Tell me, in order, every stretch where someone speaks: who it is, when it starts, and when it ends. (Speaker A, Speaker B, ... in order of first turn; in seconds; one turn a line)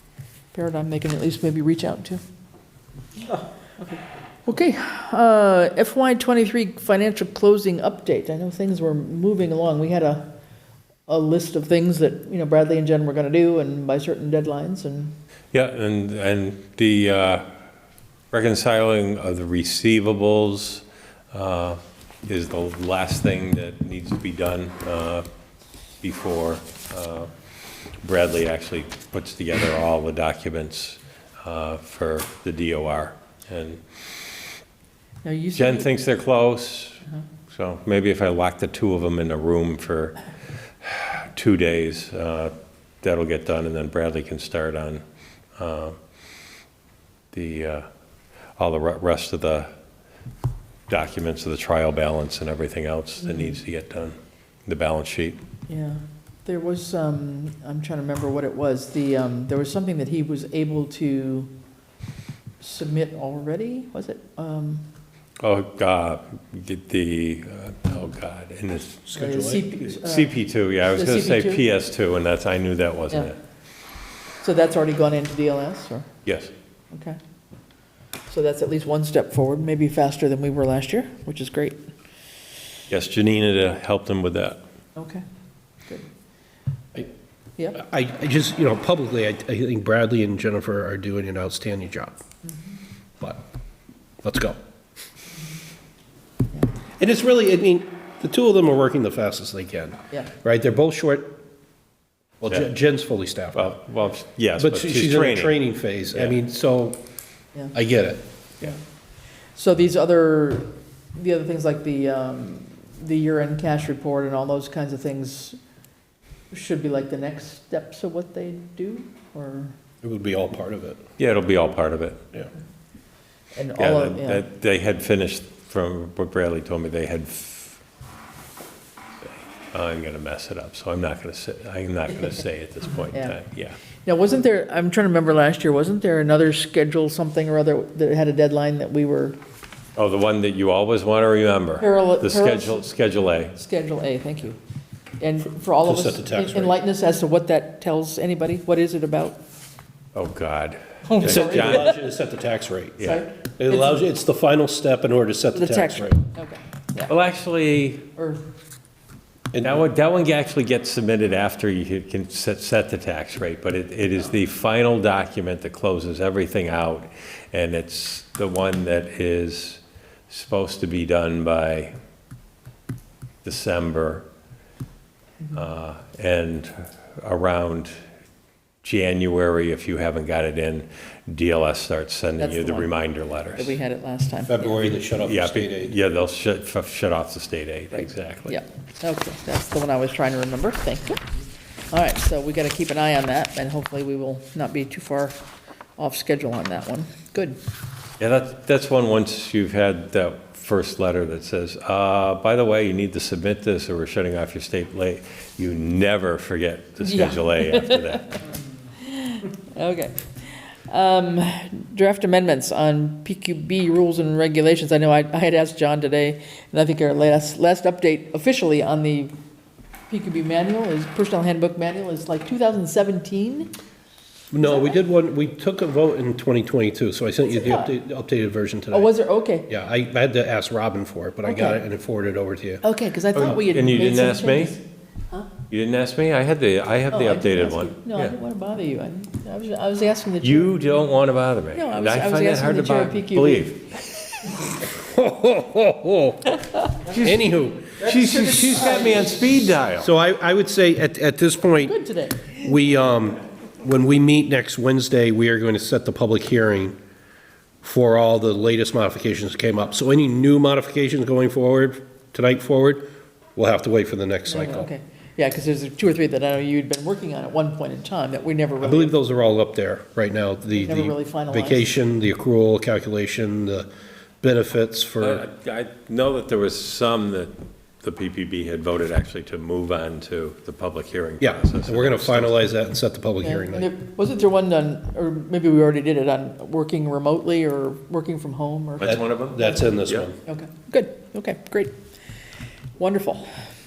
Speaker A: 0.5-2.2
Speaker A: 4.5-10.3
Speaker A: 11.1-15.1
Speaker B: 15.5-17.4
Speaker B: 18.3-25.2
Speaker B: 26.0-27.3
Speaker B: 28.0-33.8
Speaker A: 35.2-35.9
Speaker B: 35.5-40.2
Speaker B: 40.8-45.0
Speaker B: 45.6-46.0
Speaker B: 47.3-47.8
Speaker B: 48.5-49.7
Speaker B: 50.9-55.4
Speaker A: 55.7-61.5
Speaker A: 62.6-64.8
Speaker B: 65.4-69.0
Speaker C: 69.1-69.6
Speaker A: 69.2-71.6
Speaker B: 69.8-73.3
Speaker A: 74.4-76.1
Speaker B: 76.2-76.5
Speaker A: 76.9-77.2
Speaker A: 78.3-81.8
Speaker B: 82.9-84.6
Speaker A: 85.0-85.2
Speaker C: 87.7-92.2
Speaker C: 94.2-94.6
Speaker C: 97.0-101.3
Speaker C: 102.4-103.7
Speaker B: 103.5-105.6
Speaker C: 104.6-107.0
Speaker C: 107.7-108.2
Speaker A: 109.5-115.6
Speaker A: 116.5-119.8
Speaker C: 120.0-121.0
Speaker B: 121.2-122.2
Speaker A: 123.5-124.4
Speaker B: 123.8-127.8
Speaker B: 129.7-133.8
Speaker A: 133.0-133.4
Speaker A: 134.0-139.4
Speaker B: 139.9-143.5
Speaker A: 141.8-142.9
Speaker A: 143.5-144.6
Speaker A: 145.2-149.4
Speaker C: 145.8-146.8
Speaker B: 150.1-151.9
Speaker A: 151.0-151.9
Speaker C: 151.2-153.1
Speaker A: 153.0-154.0
Speaker C: 153.6-156.2
Speaker A: 155.5-157.1
Speaker B: 157.1-158.0
Speaker A: 158.2-158.4
Speaker B: 159.6-171.9
Speaker B: 173.4-174.2
Speaker B: 175.5-177.9
Speaker B: 178.8-183.8
Speaker A: 182.4-183.0
Speaker A: 183.5-184.7
Speaker C: 184.5-185.9
Speaker B: 185.1-188.6
Speaker A: 188.0-191.3
Speaker A: 191.9-195.4
Speaker A: 196.0-197.6
Speaker B: 198.2-208.4
Speaker A: 207.0-208.3
Speaker A: 209.0-219.3
Speaker A: 220.1-223.7
Speaker C: 224.5-229.1
Speaker A: 224.6-224.9
Speaker A: 227.5-227.9
Speaker A: 228.9-229.7
Speaker C: 229.7-232.8
Speaker A: 231.4-231.8
Speaker A: 232.8-234.8
Speaker B: 233.3-234.8
Speaker B: 235.7-238.3
Speaker A: 237.1-240.9
Speaker B: 240.4-244.6
Speaker A: 241.7-243.7
Speaker C: 244.9-246.5
Speaker B: 247.0-250.1
Speaker C: 247.2-248.1
Speaker A: 248.3-249.4
Speaker C: 250.0-251.9
Speaker A: 251.8-252.7
Speaker C: 252.5-257.0
Speaker C: 257.8-263.0
Speaker C: 263.6-264.9
Speaker A: 264.5-269.1
Speaker C: 268.8-273.9
Speaker A: 270.7-271.9
Speaker C: 274.4-275.4
Speaker B: 275.2-282.6
Speaker C: 281.4-283.9
Speaker A: 283.4-289.7
Speaker B: 289.0-290.2
Speaker C: 289.1-290.4
Speaker A: 290.4-291.9
Speaker A: 293.0-293.5